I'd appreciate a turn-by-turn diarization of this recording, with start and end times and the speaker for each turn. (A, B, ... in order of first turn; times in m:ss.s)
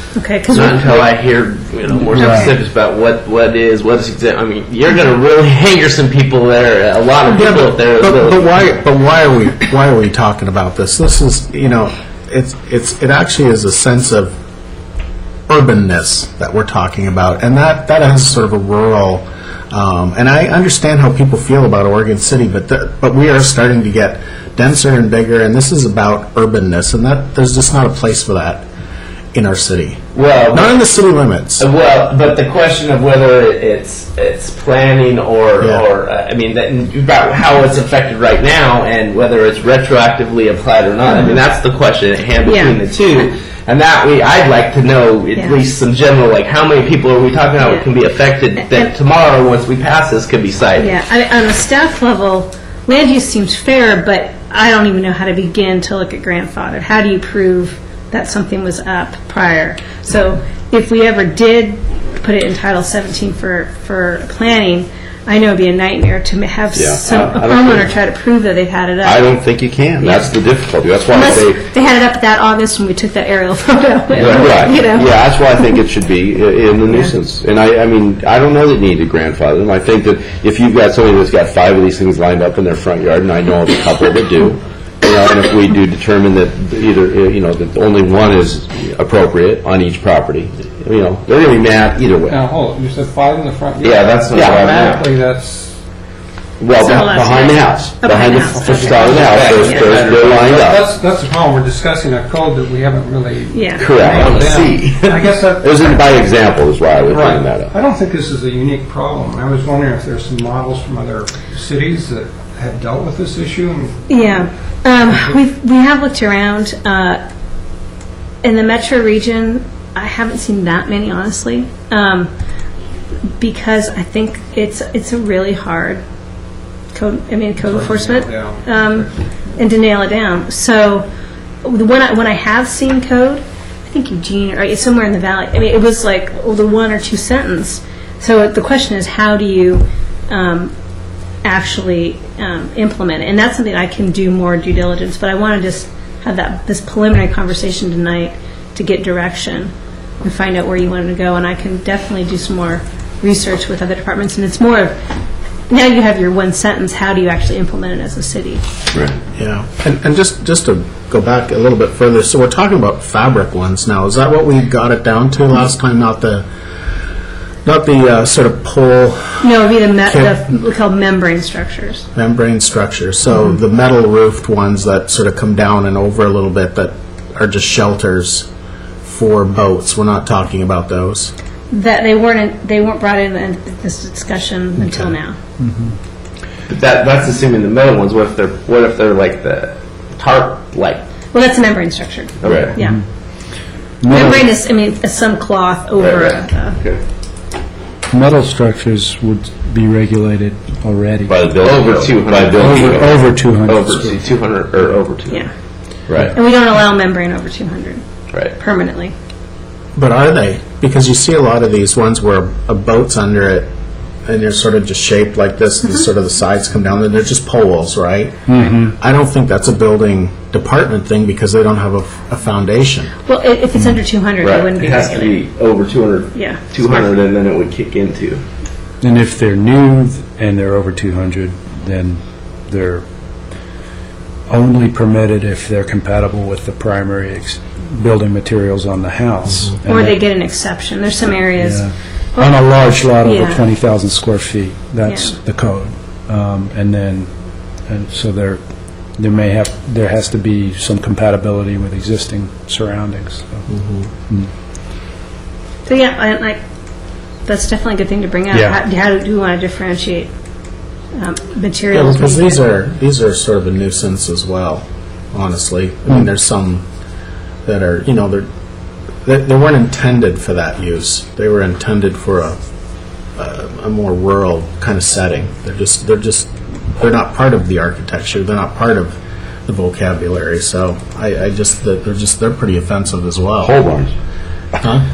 0:00.1-0:01.0 A
0:00.5-0:08.7 B
0:02.1-0:02.5 C
0:02.2-0:02.5 A
0:07.3-0:14.3 D
0:15.5-0:28.7 D
0:29.3-0:30.0 D
0:30.1-0:30.7 B
0:30.5-0:31.7 D
0:31.6-0:51.0 B
0:35.6-0:35.8 D
0:41.1-0:41.4 A
0:42.4-0:42.8 A
0:45.4-0:45.6 A
0:47.6-0:47.9 A
0:48.6-0:48.9 A
0:50.8-1:09.3 A
1:06.7-1:07.9 E
1:09.0-1:11.7 E
1:10.0-1:10.3 A
1:11.1-1:15.7 A
1:14.1-1:32.4 E
1:31.4-1:31.7 B
1:32.3-1:35.8 F
1:33.8-1:35.1 B
1:34.4-1:34.7 E
1:36.6-1:40.9 E
1:36.8-1:39.9 A
1:38.5-1:39.8 F
1:39.0-1:40.8 B
1:40.4-1:46.2 F
1:43.5-1:44.0 A
1:43.8-1:44.2 E
1:43.8-1:45.3 B
1:45.6-1:47.7 E
1:47.1-1:54.4 F
1:54.1-1:57.2 A
1:58.4-2:02.3 A
2:03.4-2:06.0 A
2:06.9-2:11.1 A
2:07.6-2:09.1 F
2:11.6-2:20.7 A
2:21.4-2:35.0 A
2:35.7-2:38.6 A
2:39.4-2:46.5 D
2:47.6-2:50.4 D
2:49.4-2:52.1 A
2:52.2-2:58.5 D
2:59.0-3:01.3 D
3:01.7-3:05.4 A
3:04.8-3:05.2 D
3:05.6-3:05.9 C
3:06.7-3:11.0 B
3:11.3-3:13.0 A
3:12.4-3:12.7 B
3:12.4-3:12.8 E
3:14.0-3:14.5 C
3:14.1-3:16.8 A
3:16.0-3:17.0 B
3:18.1-3:21.4 C
3:21.3-3:23.1 E
3:21.6-3:25.4 B
3:22.6-3:24.2 C
3:26.1-3:26.4 E
3:26.3-3:29.1 A
3:30.0-3:33.7 D
3:34.2-3:43.1 D
3:38.5-3:38.9 C
3:43.3-3:45.4 A
3:44.4-3:48.4 B
3:46.3-3:47.1 A
3:49.0-3:53.0 C
3:54.5-4:00.2 C
3:59.9-4:03.6 A
4:01.6-4:07.3 C
4:05.0-4:05.4 A
4:07.9-4:08.6 C
4:09.2-4:13.6 C
4:13.7-4:14.1 D
4:15.9-4:16.6 A
4:17.5-4:20.3 A
4:18.5-4:18.8 C
4:21.2-4:22.7 A
4:21.9-4:26.8 D
4:27.6-4:28.5 D
4:29.2-4:32.6 D
4:33.4-4:43.7 D
4:43.6-4:44.1 E
4:44.8-4:45.1 D